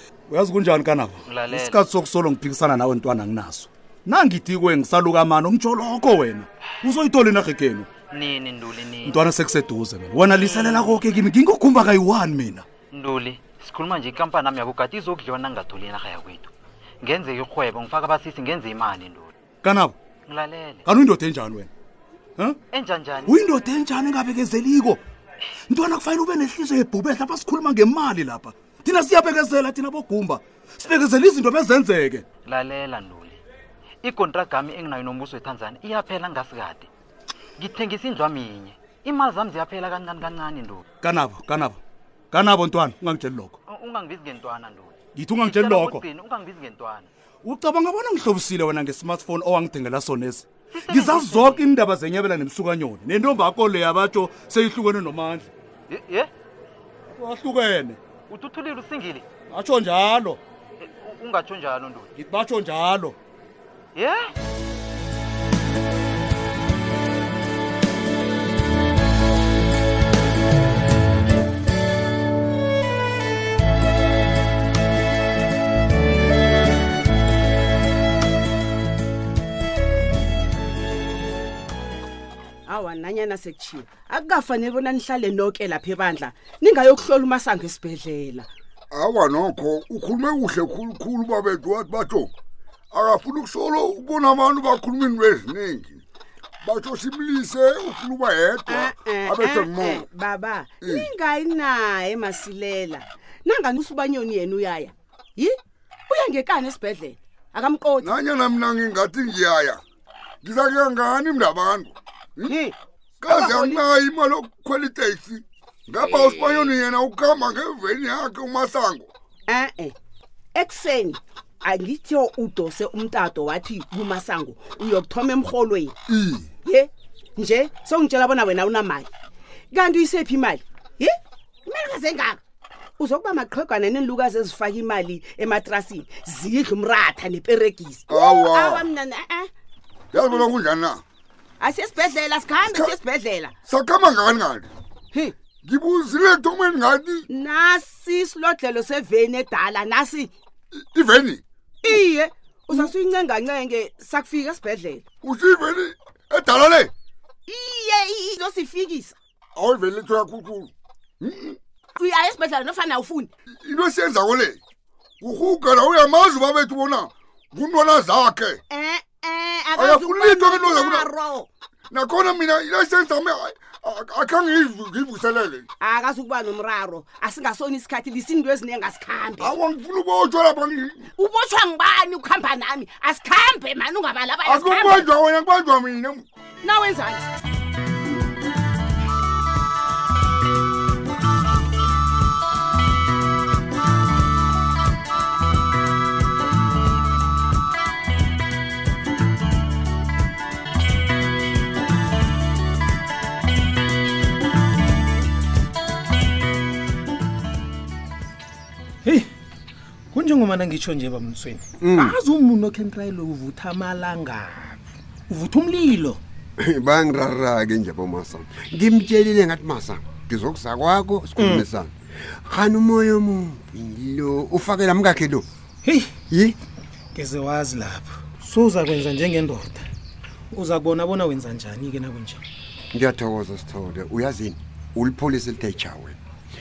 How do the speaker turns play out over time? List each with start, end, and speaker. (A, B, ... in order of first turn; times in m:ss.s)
0:00.3-0:07.9 A
0:01.2-0:01.8 B
0:08.1-0:09.2 B
0:09.1-0:12.7 A
0:10.4-0:10.9 B
0:12.9-0:16.5 B
0:17.0-0:19.3 B
0:19.6-0:20.0 A
0:20.3-0:20.9 B
0:20.9-0:21.7 A
0:22.7-0:23.6 B
0:23.3-0:25.0 A
0:25.7-0:32.2 A
0:32.5-0:33.4 B
0:34.0-0:36.9 B
0:37.6-0:40.8 B
0:41.0-0:41.8 A
0:42.3-0:43.6 A
0:43.7-0:47.1 B
0:45.2-0:46.0 A
0:47.4-0:55.5 A
0:50.7-0:51.7 B
0:55.9-0:56.3 B
0:57.1-0:58.0 A
0:58.3-0:59.3 B
0:59.5-1:00.4 A
1:00.8-1:02.1 B
1:02.2-1:03.2 A
1:04.0-1:04.3 B
1:22.7-1:28.5 C
1:28.9-1:32.3 D
1:32.9-1:36.0 D
1:36.6-1:40.0 D
1:38.7-1:45.6 C
1:40.8-1:41.1 D
1:46.1-1:48.2 C
1:48.0-1:49.8 D
1:50.4-1:52.6 D
1:52.5-1:52.8 C
1:53.2-1:59.1 D
1:53.3-1:53.8 C
1:56.0-1:56.7 C
1:59.5-2:00.0 C
2:00.6-2:06.0 C
2:06.1-2:06.5 D
2:06.6-2:09.1 C
2:09.7-2:11.2 C
2:11.7-2:12.4 C
2:13.0-2:19.5 C
2:18.1-2:18.9 D
2:20.1-2:21.0 D
2:21.6-2:23.6 C
2:22.6-2:23.0 D
2:23.7-2:24.7 D
2:25.6-2:27.2 D
2:27.3-2:30.3 C
2:30.9-2:31.4 D
2:31.8-2:35.0 C
2:35.2-2:36.9 D
2:37.5-2:39.2 C
2:39.6-2:41.6 D
2:42.0-2:43.3 C
2:43.6-2:44.6 D
2:45.2-2:48.6 D
2:48.7-2:51.5 C
2:49.8-2:51.1 D
2:51.9-2:55.7 D
2:55.8-2:59.6 C
2:59.4-3:01.0 D
3:01.2-3:05.1 C
3:04.4-3:06.2 D
3:06.6-3:07.3 C
3:30.1-3:36.2 E
3:31.8-3:32.2 F
3:36.6-3:45.5 F
3:41.4-3:41.7 E
3:45.8-3:46.1 E
3:46.3-3:46.6 F
3:47.2-3:49.9 E
3:50.5-3:52.4 E
3:52.9-3:56.2 F